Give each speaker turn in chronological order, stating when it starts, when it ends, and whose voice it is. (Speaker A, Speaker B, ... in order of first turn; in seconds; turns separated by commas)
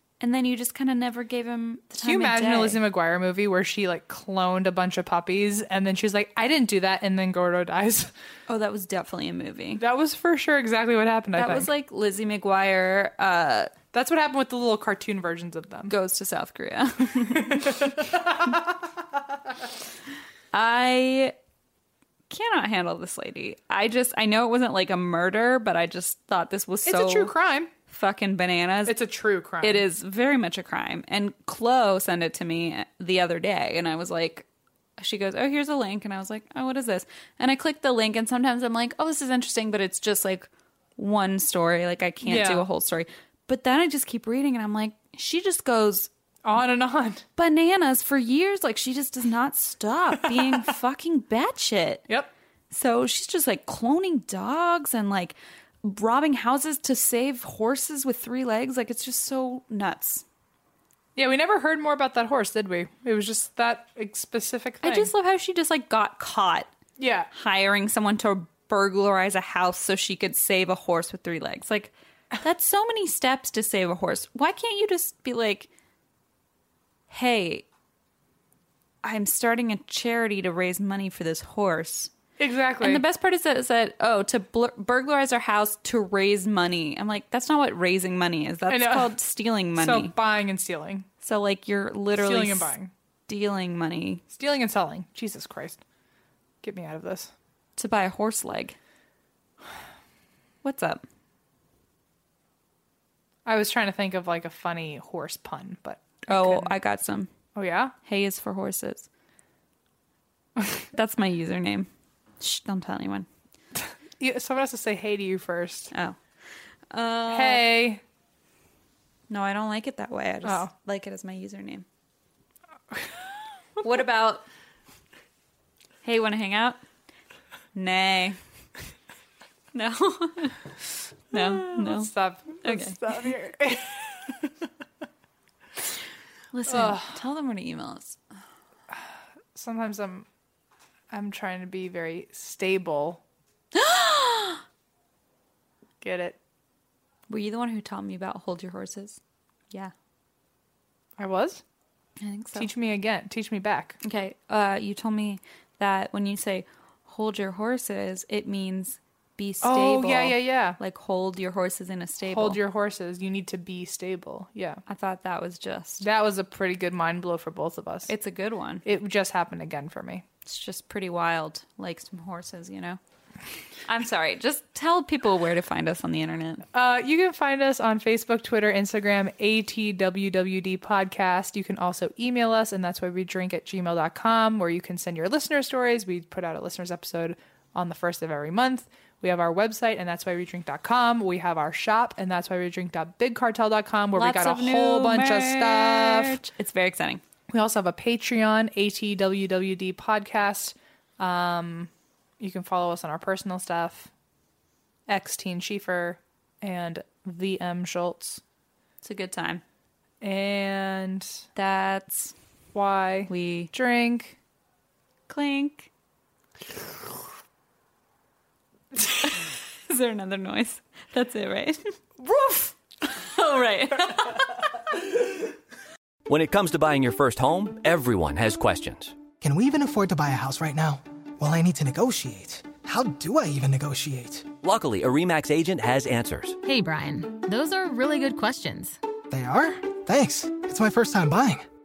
Speaker A: 0.2-2.8, Speaker B: 2.0-8.1, Speaker A: 8.5-9.8, Speaker B: 9.8-11.7, Speaker A: 11.4-13.7, Speaker B: 13.9-15.9, Speaker A: 15.9-17.9, Speaker B: 17.4-18.6, Speaker A: 20.5-21.3, Speaker A: 22.3-27.3, Speaker B: 26.9-27.7, Speaker A: 27.9-29.0, Speaker B: 28.9-29.8, Speaker A: 29.6-34.5, Speaker A: 35.0-46.1, Speaker B: 42.2-42.6, Speaker B: 46.5-47.2, Speaker A: 47.4-52.0, Speaker A: 52.7-60.2, Speaker B: 61.2-65.1, Speaker A: 64.8-66.7, Speaker B: 67.0-67.3, Speaker A: 67.3-75.7, Speaker A: 77.1-77.7, Speaker A: 79.0-82.1, Speaker B: 82.4-83.0, Speaker A: 82.8-90.1, Speaker B: 88.7-89.1, Speaker B: 89.8-91.1, Speaker A: 91.2-92.7, Speaker B: 92.2-92.9, Speaker A: 93.3-94.2, Speaker B: 94.3-95.8, Speaker B: 96.6-97.3, Speaker A: 97.8-98.8, Speaker A: 100.6-101.0, Speaker B: 103.5-106.8, Speaker A: 106.3-107.3, Speaker B: 107.6-107.9, Speaker A: 108.0-109.1, Speaker A: 110.9-111.9, Speaker A: 112.4-113.3, Speaker B: 114.2-115.9, Speaker A: 116.9-117.7, Speaker B: 117.3-118.0, Speaker A: 119.3-121.9, Speaker A: 123.8-124.5, Speaker A: 126.0-126.8, Speaker A: 127.7-128.4, Speaker A: 129.7-132.1, Speaker B: 131.3-134.0, Speaker A: 132.6-133.0, Speaker A: 136.5-138.2, Speaker B: 136.7-137.2, Speaker B: 139.6-140.3, Speaker B: 141.1-143.2, Speaker A: 143.7-144.6, Speaker B: 146.0-146.4, Speaker A: 147.3-149.2, Speaker B: 151.2-151.6, Speaker A: 152.2-152.7, Speaker B: 152.6-154.0, Speaker A: 154.0-162.6, Speaker B: 159.6-160.8, Speaker B: 162.3-164.8, Speaker A: 164.9-166.1, Speaker B: 166.0-168.1, Speaker A: 168.1-168.8, Speaker B: 168.8-170.2, Speaker A: 170.5-173.0, Speaker A: 173.9-176.7, Speaker B: 176.7-196.4, Speaker A: 194.1-197.2, Speaker B: 197.5-204.1, Speaker B: 205.1-208.4, Speaker A: 209.0-209.6, Speaker B: 210.2-211.4, Speaker A: 211.6-212.3, Speaker B: 212.7-214.3, Speaker A: 213.3-213.7, Speaker A: 215.3-215.9, Speaker A: 219.0-225.1, Speaker C: 226.3-229.2, Speaker D: 229.4-234.5, Speaker C: 234.6-236.6, Speaker E: 236.6-239.0, Speaker D: 239.3-241.7